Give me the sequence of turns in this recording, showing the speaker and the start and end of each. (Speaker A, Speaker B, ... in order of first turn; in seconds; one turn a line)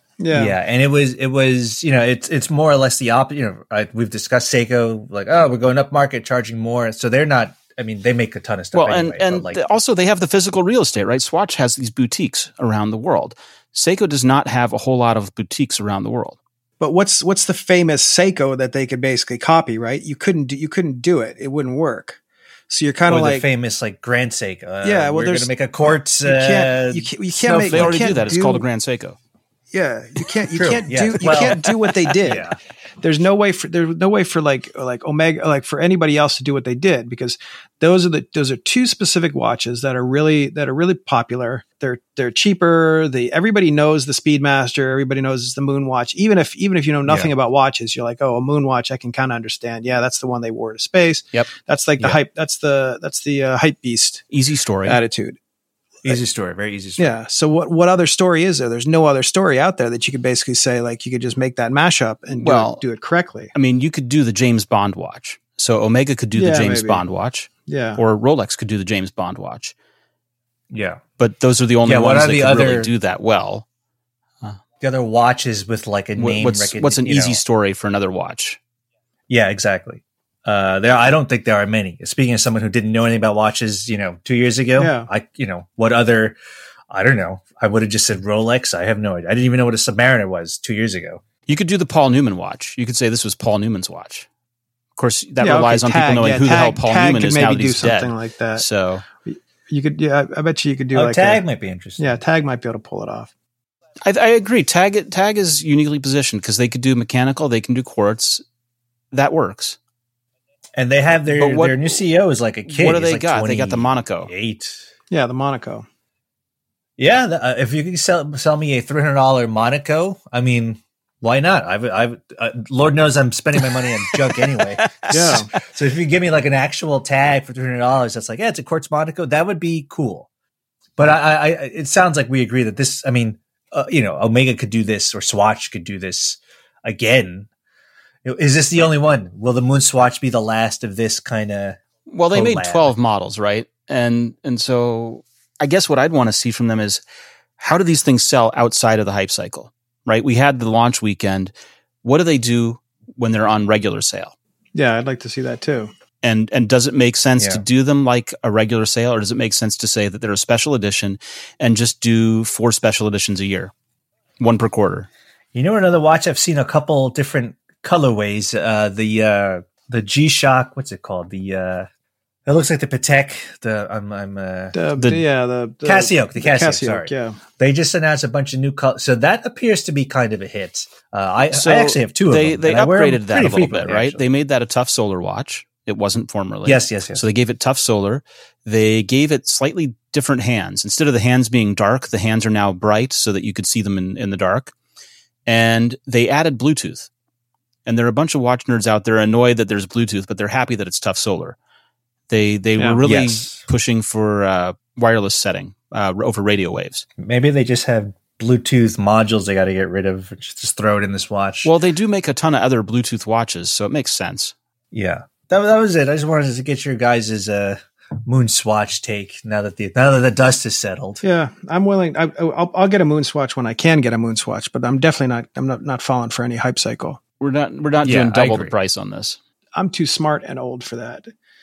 Speaker A: 0.2-0.6
Speaker B: 0.3-9.6
Speaker C: 8.7-16.4
Speaker A: 16.8-23.4
Speaker B: 23.1-28.0
Speaker A: 24.8-25.5
Speaker A: 26.2-28.6
Speaker C: 27.7-29.2
Speaker A: 29.7-32.5
Speaker B: 30.5-32.5
Speaker A: 33.0-54.2
Speaker B: 47.0-47.3
Speaker C: 51.3-52.2
Speaker C: 54.3-55.0
Speaker A: 54.8-55.4
Speaker B: 56.0-57.1
Speaker A: 57.0-63.5
Speaker C: 62.3-62.8
Speaker C: 63.5-69.7
Speaker A: 66.3-67.0
Speaker A: 67.7-68.0
Speaker B: 70.7-71.0
Speaker C: 71.2-73.7
Speaker B: 71.8-72.9
Speaker B: 74.8-77.4
Speaker C: 76.2-78.6
Speaker B: 79.3-86.4
Speaker A: 84.8-85.1
Speaker B: 86.9-91.2
Speaker C: 91.5-94.3
Speaker C: 95.0-99.0
Speaker A: 95.4-98.7
Speaker A: 99.2-101.4
Speaker B: 100.9-102.2
Speaker A: 102.0-103.3
Speaker C: 104.0-108.4
Speaker C: 109.1-109.8
Speaker B: 110.8-114.9
Speaker C: 111.3-111.9
Speaker C: 112.7-114.3
Speaker A: 115.1-115.8
Speaker B: 117.0-130.3
Speaker C: 123.6-125.6
Speaker A: 125.1-125.5
Speaker B: 131.0-137.5
Speaker B: 138.2-141.8
Speaker C: 142.1-147.0
Speaker B: 142.3-142.9
Speaker C: 147.6-154.3
Speaker A: 154.7-155.9
Speaker C: 156.2-163.7
Speaker B: 157.4-157.6
Speaker C: 164.4-165.1
Speaker B: 165.5-171.9
Speaker B: 172.4-174.8
Speaker A: 174.7-177.4
Speaker C: 175.0-175.2
Speaker B: 175.8-184.2
Speaker C: 181.5-194.7
Speaker B: 186.6-187.2
Speaker C: 195.4-197.1
Speaker C: 197.8-201.6
Speaker C: 202.3-207.0
Speaker A: 202.8-203.0
Speaker B: 203.0-203.6
Speaker B: 207.2-211.7
Speaker C: 211.6-214.5
Speaker B: 214.9-221.2
Speaker A: 221.2-227.2
Speaker C: 227.4-229.4
Speaker B: 228.0-228.7
Speaker A: 229.7-231.3